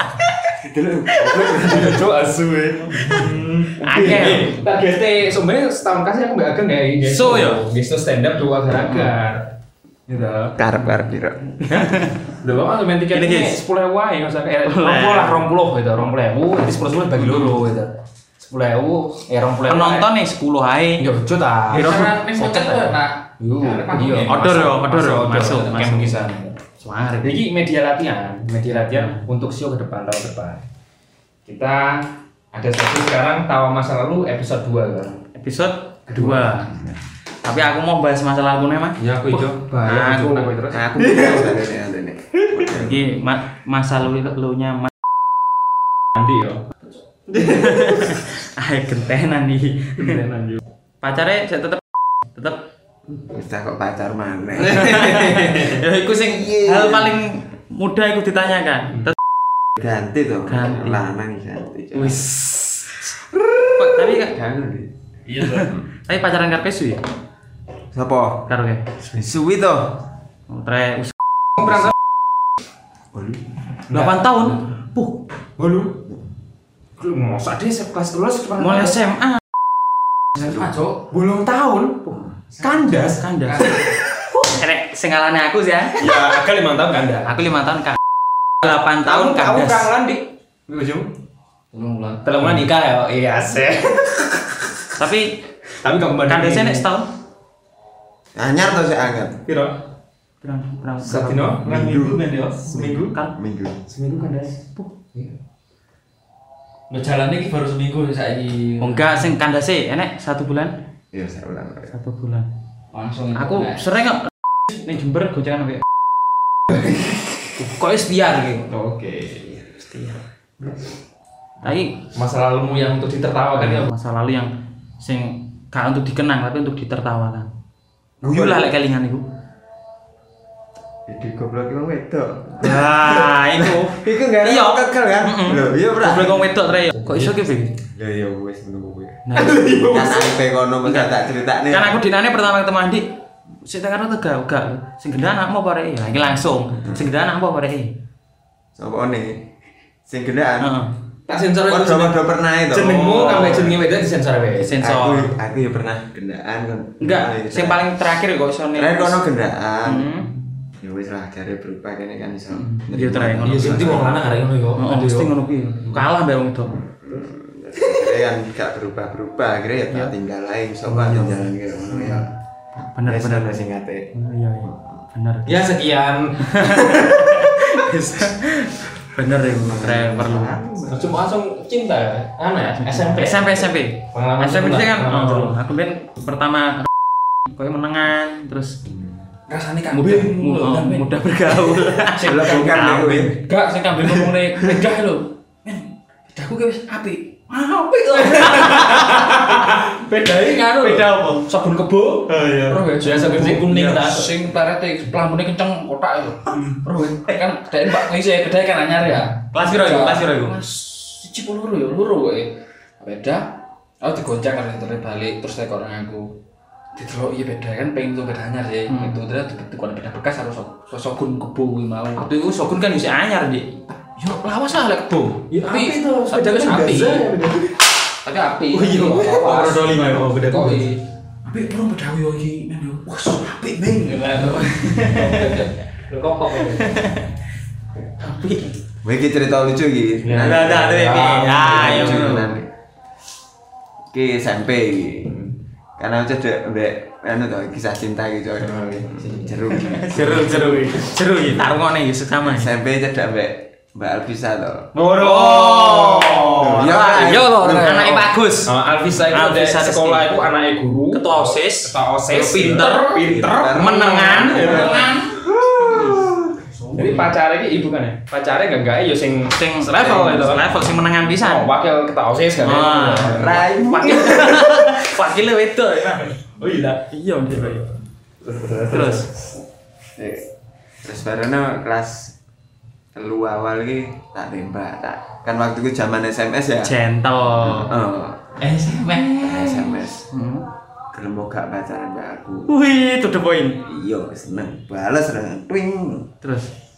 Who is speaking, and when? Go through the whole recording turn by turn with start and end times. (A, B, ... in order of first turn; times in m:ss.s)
0:00.4-0:02.1 A
0:01.2-0:09.5 B
0:03.1-0:04.6 C
0:03.2-0:03.4 A
0:07.0-0:07.6 C
0:08.8-0:09.2 C
0:10.1-0:10.6 B
0:10.6-0:11.9 A
0:11.7-0:18.7 B
0:11.7-0:12.2 C
0:13.1-0:13.6 C
0:14.6-0:15.5 C
0:14.9-0:15.2 D
0:16.5-0:17.6 D
0:17.2-0:17.7 C
0:18.5-0:20.0 D
0:19.2-0:19.8 B
0:19.6-0:21.1 C
0:21.0-0:22.2 B
0:21.7-0:26.3 D
0:21.7-0:23.0 C
0:23.4-0:26.5 B
0:24.0-0:27.4 C
0:27.2-0:30.6 B
0:28.9-0:29.2 C
0:31.4-0:35.2 B
0:35.3-0:36.8 C
0:36.1-0:36.8 B
0:37.4-0:40.5 C
0:39.0-0:41.6 B
0:40.7-0:43.1 A
0:42.5-0:42.9 B
0:42.8-0:44.9 C
0:46.1-0:46.6 B
0:47.3-0:50.2 C
0:50.0-0:50.6 B
0:51.0-0:51.8 C
0:52.3-0:52.7 C
0:53.1-0:57.3 A
0:54.7-0:59.2 C
0:59.7-1:02.4 A
1:00.5-1:01.0 C
1:02.0-1:03.1 C
1:03.8-1:04.4 C
1:03.8-1:04.9 A
1:05.3-1:05.7 B
1:05.4-1:07.0 C
1:07.9-1:08.5 A
1:08.5-1:09.0 C
1:09.0-1:10.1 A
1:10.5-1:11.1 C
1:11.6-1:11.9 B
1:13.1-1:13.5 A
1:13.9-1:14.7 B
1:13.9-1:15.3 C
1:15.6-1:16.0 B
1:17.0-1:19.0 B
1:18.6-1:19.4 C
1:20.4-1:21.0 D
1:20.4-1:24.0 B
1:22.1-1:22.6 A
1:22.8-1:26.2 C
1:26.0-1:27.4 B
1:27.2-1:28.0 C
1:28.6-1:29.9 C
1:28.9-1:31.1 B
1:31.7-1:34.2 D
1:32.4-1:32.6 B
1:35.0-1:35.4 C
1:35.8-1:36.9 B
1:36.2-1:37.1 C
1:38.3-1:39.4 A
1:39.4-1:39.8 B
1:40.4-1:41.6 C
1:41.0-1:43.1 B
1:41.6-1:43.9 A
1:41.7-1:42.7 D
1:43.0-1:43.3 C
1:43.9-1:45.3 B
1:46.9-1:49.3 D
1:48.8-1:50.8 C
1:51.1-1:52.0 A
1:51.9-1:52.5 C
1:52.9-1:53.9 D
1:53.3-1:55.8 C
1:56.7-1:57.2 B
1:57.6-1:58.7 D
1:58.7-1:59.7 B
1:59.7-2:00.2 C
2:01.6-2:02.0 C
2:02.0-2:03.9 B
2:03.6-2:07.5 C
2:08.2-2:08.7 A
2:08.2-2:09.3 C
2:11.1-2:16.6 A
2:12.6-2:17.8 C
2:17.0-2:17.3 B
2:17.5-2:19.3 A
2:19.2-2:20.2 C
2:19.4-2:20.2 B
2:19.8-2:22.0 A
2:20.8-2:21.2 C
2:21.7-2:23.1 C
2:23.6-2:27.9 C
2:26.8-2:27.1 A
2:28.7-2:30.7 A
2:30.6-2:30.9 C
2:31.3-2:34.8 B
2:31.6-2:33.7 A
2:33.2-2:33.7 C
2:34.6-2:35.3 C
2:34.8-2:37.9 A
2:37.0-2:39.2 C
2:38.7-2:40.2 A
2:39.8-2:40.4 C
2:40.8-2:44.2 A
2:42.5-2:46.8 C
2:43.4-2:45.3 D
2:43.4-2:44.9 B
2:46.7-2:52.4 A
2:50.9-2:51.3 C
2:52.8-2:55.6 C
2:53.0-2:54.1 A
2:55.4-2:57.2 B
2:56.4-3:00.6 C
2:59.4-3:01.2 A
3:00.9-3:05.6 B
3:02.7-3:06.9 C
3:07.5-3:08.8 C
3:08.9-3:09.1 A
3:09.5-3:12.4 D
3:09.9-3:13.5 C
3:12.2-3:13.4 A
3:12.3-3:12.8 B
3:13.4-3:22.2 D
3:17.9-3:19.7 C
3:18.4-3:20.6 B
3:20.8-3:21.5 C
3:21.5-3:24.3 B
3:22.3-3:24.0 C
3:22.9-3:36.4 D
3:26.6-3:27.3 C
3:29.5-3:30.6 C
3:36.9-3:42.4 D
3:38.9-3:39.3 C
3:42.1-3:43.8 C
3:44.0-3:47.3 D
3:45.5-3:47.8 B
3:48.2-3:57.0 D
3:48.7-3:51.0 B
3:49.0-3:50.6 C
3:54.5-3:55.6 C
3:56.8-3:57.3 C
3:58.2-3:58.8 C
3:59.0-4:00.9 A
4:00.2-4:02.5 B
4:00.3-4:02.6 C
4:01.7-4:02.7 A
4:04.1-4:05.4 A
4:05.2-4:05.5 B
4:06.0-4:11.7 A
4:08.6-4:09.6 B
4:09.9-4:12.7 C
4:10.4-4:10.8 B
4:12.4-4:14.9 A
4:14.9-4:20.4 C
4:15.0-4:16.7 B
4:16.5-4:17.9 A
4:17.2-4:18.3 D
4:18.6-4:26.3 B
4:21.1-4:23.1 C
4:23.2-4:25.2 A
4:23.7-4:25.3 C
4:25.9-4:26.3 A
4:26.7-4:27.3 D
4:26.9-4:33.7 B
4:29.5-4:31.7 C
4:32.6-4:36.3 C
4:33.2-4:34.7 A
4:36.6-4:37.0 B
4:37.0-4:37.9 C
4:38.5-4:39.2 B
4:38.8-4:39.3 C
4:40.2-4:40.5 A
4:41.0-4:42.3 A
4:43.1-4:46.9 A
4:46.8-4:47.9 C
4:47.6-4:48.6 A
4:48.6-4:50.7 C
4:49.4-4:50.3 A
4:51.1-4:52.7 A
4:52.7-4:53.8 C
4:53.8-4:56.3 A
4:56.4-4:56.7 C